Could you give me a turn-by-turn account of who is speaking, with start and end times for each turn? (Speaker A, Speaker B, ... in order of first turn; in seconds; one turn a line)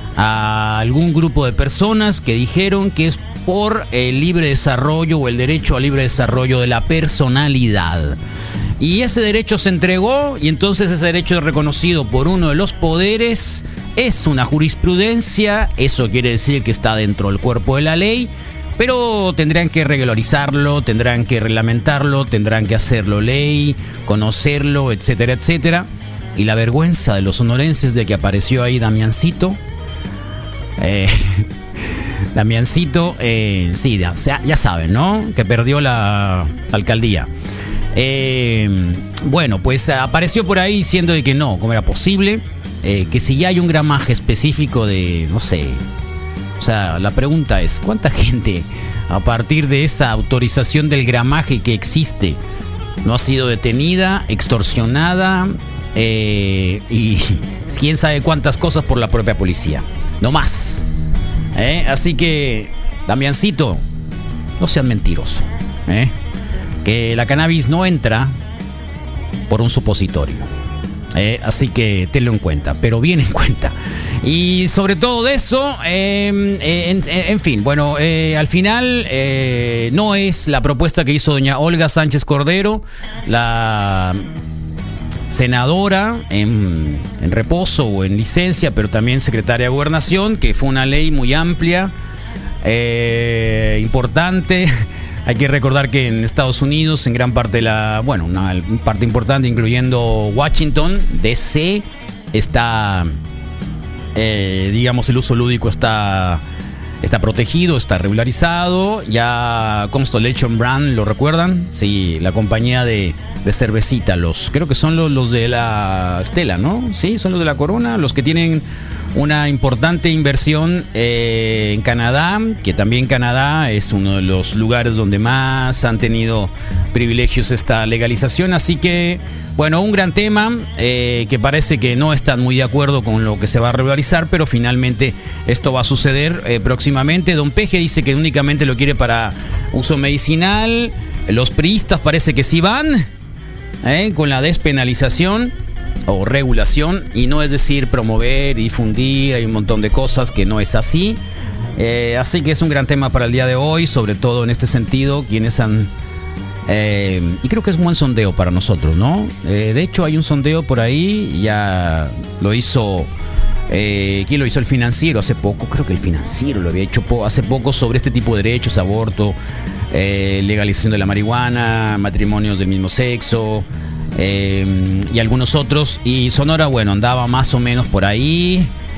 Speaker A: 0.2-8.2
Speaker A: 8.8-29.6
Speaker A: 30.8-31.5
Speaker A: 32.3-37.3
Speaker A: 37.9-45.8
Speaker A: 46.6-52.4
Speaker A: 53.0-60.9
Speaker A: 61.5-63.8
Speaker A: 64.6-66.1
Speaker A: 66.8-68.3
Speaker A: 69.5-70.5
Speaker A: 71.1-84.2
Speaker A: 85.3-91.9
Speaker A: 92.6-103.1
Speaker A: 104.2-106.4
Speaker A: 107.0-118.6
Speaker A: 119.1-143.1
Speaker A: 143.8-145.5
Speaker A: 146.1-151.2
Speaker A: 151.8-155.9
Speaker A: 156.7-163.1
Speaker A: 163.7-169.3
Speaker A: 169.9-178.7